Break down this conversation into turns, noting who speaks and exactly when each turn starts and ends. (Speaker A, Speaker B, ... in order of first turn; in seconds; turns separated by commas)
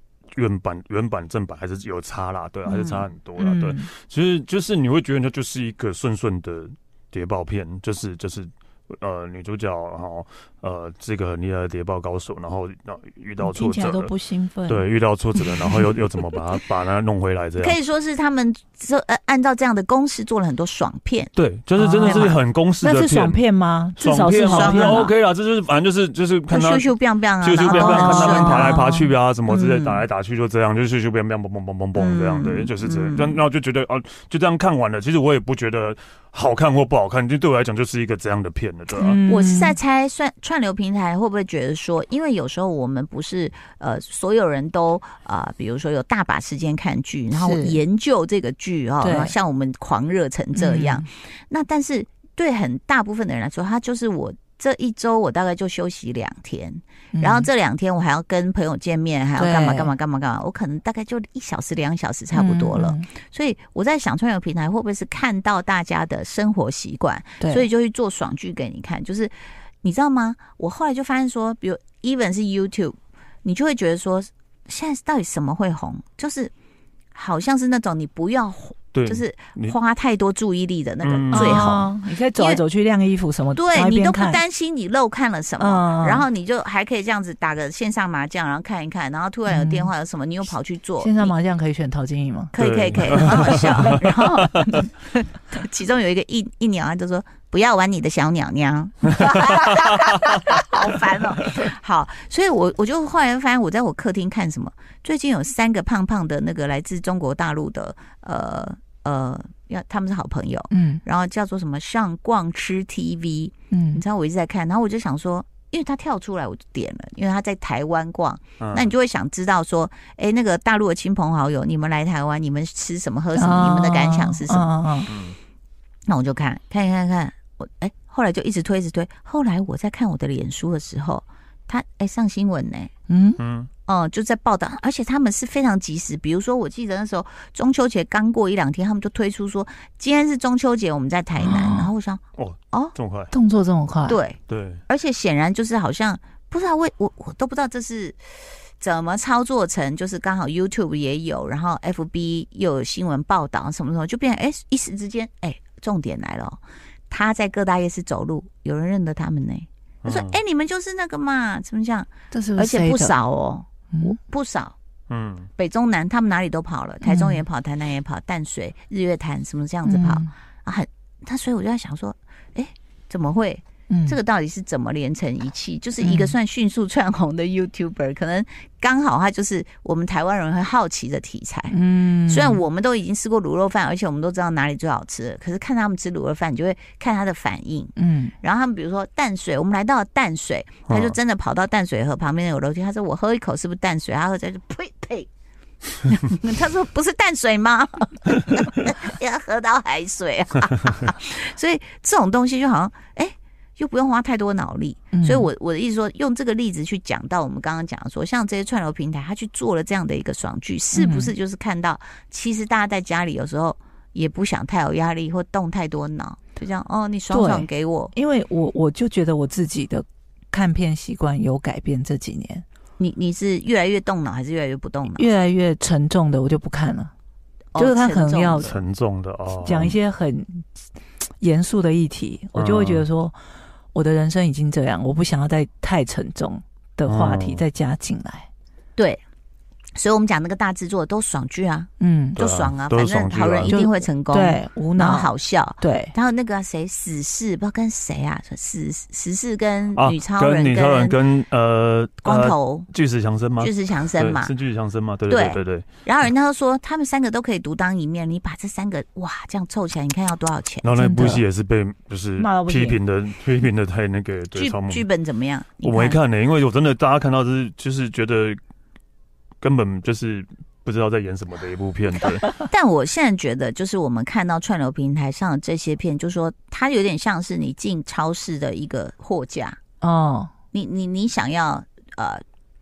Speaker A: 0.3-14.1, Speaker B: 2.7-3.0, Speaker C: 3.4-3.9, Speaker C: 13.4-14.8, Speaker A: 14.7-17.8, Speaker C: 15.4-15.9, Speaker B: 17.6-21.3, Speaker A: 21.4-23.4, Speaker C: 21.8-25.1, Speaker B: 22.0-22.4, Speaker A: 24.0-26.9, Speaker B: 24.4-25.1, Speaker B: 26.5-30.0, Speaker A: 27.4-39.2, Speaker C: 27.6-28.9, Speaker B: 32.0-33.4, Speaker C: 39.0-39.8, Speaker B: 39.3-76.5, Speaker C: 47.3-47.8, Speaker C: 49.0-49.3, Speaker C: 50.5-51.0, Speaker C: 57.1-57.5, Speaker C: 59.4-59.9, Speaker C: 62.3-63.0, Speaker C: 67.4-67.7, Speaker B: 77.1-82.6, Speaker A: 78.9-79.7, Speaker A: 81.0-81.8, Speaker C: 81.3-84.4, Speaker B: 83.5-91.3, Speaker C: 85.6-86.2, Speaker C: 89.5-89.9, Speaker C: 91.0-92.5, Speaker B: 92.5-124.7, Speaker A: 92.6-94.7, Speaker C: 93.1-94.2, Speaker A: 99.2-100.3, Speaker C: 110.7-111.0, Speaker C: 113.7-114.0, Speaker A: 118.6-118.9, Speaker C: 123.3-125.1, Speaker A: 125.1-125.3, Speaker B: 126.1-132.9, Speaker C: 133.1-133.4, Speaker A: 133.4-133.7, Speaker B: 133.9-142.2, Speaker C: 141.4-141.9, Speaker A: 142.4-143.3, Speaker C: 143.3-144.2, Speaker B: 144.1-164.7, Speaker A: 144.5-144.8, Speaker A: 160.0-160.4, Speaker C: 162.3-163.1, Speaker A: 165.1-165.5, Speaker B: 165.6-195.3, Speaker C: 167.0-167.4, Speaker C: 169.9-170.3, Speaker C: 173.9-174.2, Speaker C: 176.0-176.3, Speaker C: 181.7-182.6, Speaker C: 188.0-188.3, Speaker A: 190.9-191.1, Speaker B: 196.0-218.1, Speaker C: 205.1-205.5, Speaker C: 210.9-211.3, Speaker C: 217.3-222.6, Speaker B: 223.0-225.2, Speaker C: 225.1-227.1, Speaker B: 227.7-228.7, Speaker C: 227.8-228.7, Speaker A: 228.6-229.9, Speaker C: 229.6-230.7, Speaker C: 231.4-233.3, Speaker A: 232.6-233.0, Speaker C: 233.9-238.5, Speaker A: 237.1-237.6, Speaker B: 239.9-251.2, Speaker C: 242.0-242.4, Speaker A: 242.4-243.8, Speaker C: 243.7-246.1, Speaker A: 249.9-255.9, Speaker B: 252.2-252.9, Speaker B: 253.6-254.5, Speaker B: 255.3-260.9, Speaker A: 260.8-265.1, Speaker C: 261.0-261.4, Speaker C: 262.4-263.0, Speaker B: 264.6-266.2, Speaker A: 265.8-268.6, Speaker A: 269.6-272.5, Speaker B: 272.5-279.8, Speaker C: 280.0-280.5, Speaker B: 280.7-282.4